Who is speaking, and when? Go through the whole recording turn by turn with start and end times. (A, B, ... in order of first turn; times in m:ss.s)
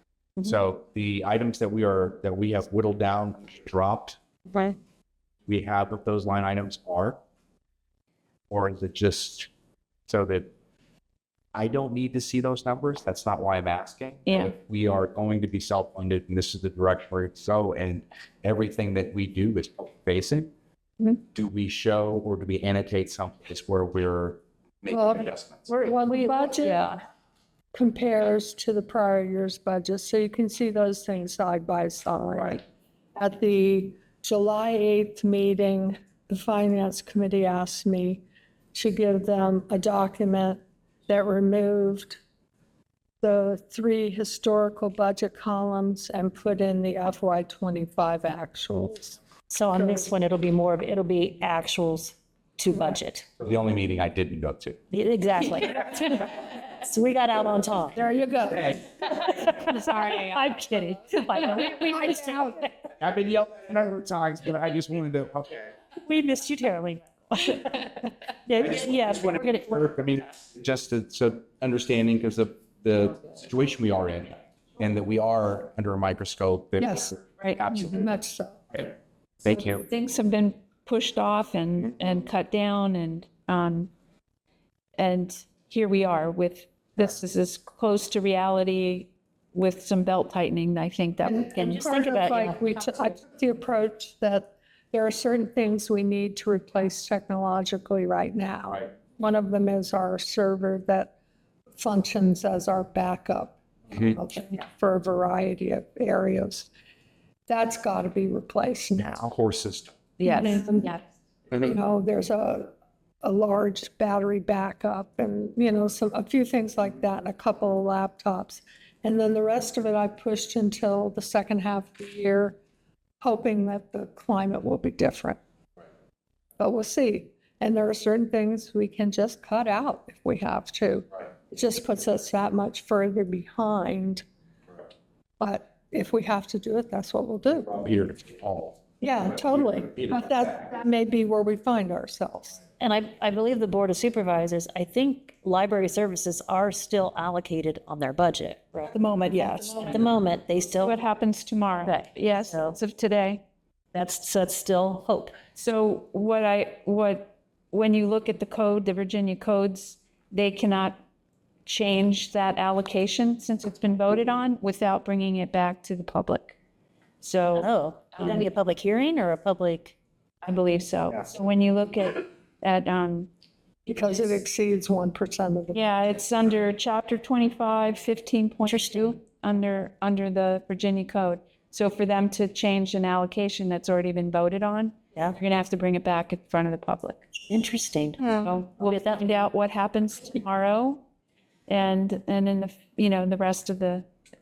0:00.4-0:04.2 A
0:05.5-0:07.2 A
0:08.5-0:09.5 A
0:10.1-0:10.5 A
0:11.5-0:20.5 A
0:14.2-0:14.5 B
0:21.3-0:25.7 A
0:24.9-0:26.8 C
0:25.7-0:27.0 B
0:27.7-0:32.6 C
0:33.2-0:42.2 C
0:43.2-0:49.2 C
0:49.5-0:53.3 D
0:53.4-0:54.8 A
0:54.9-0:58.0 D
0:58.0-0:58.8 C
0:59.5-1:00.4 B
1:00.3-1:02.7 D
1:03.0-1:05.6 A
1:06.0-1:07.9 D
1:08.5-1:09.6 D
1:08.6-1:18.1 A
1:16.8-1:17.1 C
1:17.9-1:18.6 C
1:19.4-1:19.8 A
1:19.7-1:23.9 B
1:25.0-1:31.9 B
1:31.3-1:41.1 C
1:31.6-1:32.6 D
1:41.8-1:46.7 C
1:47.5-1:49.3 C
1:49.3-1:49.9 A
1:50.2-1:51.0 B
1:50.2-1:50.9 C
1:51.6-1:52.7 C
1:53.2-2:02.6 C
2:03.2-2:05.4 C
2:06.6-2:14.2 C
2:15.4-2:17.8 C
2:17.7-2:20.2 A
2:19.0-2:22.6 C
2:22.8-2:30.9 D
2:28.9-2:30.0 B
2:30.8-2:33.4 B
2:31.8-2:32.7 D
2:33.9-2:35.4 D
2:35.5-2:41.0 B
2:41.6-2:46.6 B
2:47.2-2:48.4 B
2:47.6-2:49.9 D
2:50.4-2:53.3 B
2:53.8-2:55.8 C
2:55.7-3:07.2 B
2:58.7-2:59.0 D
3:07.5-3:08.4 D
3:08.3-3:11.0 B
3:11.7-3:14.1 B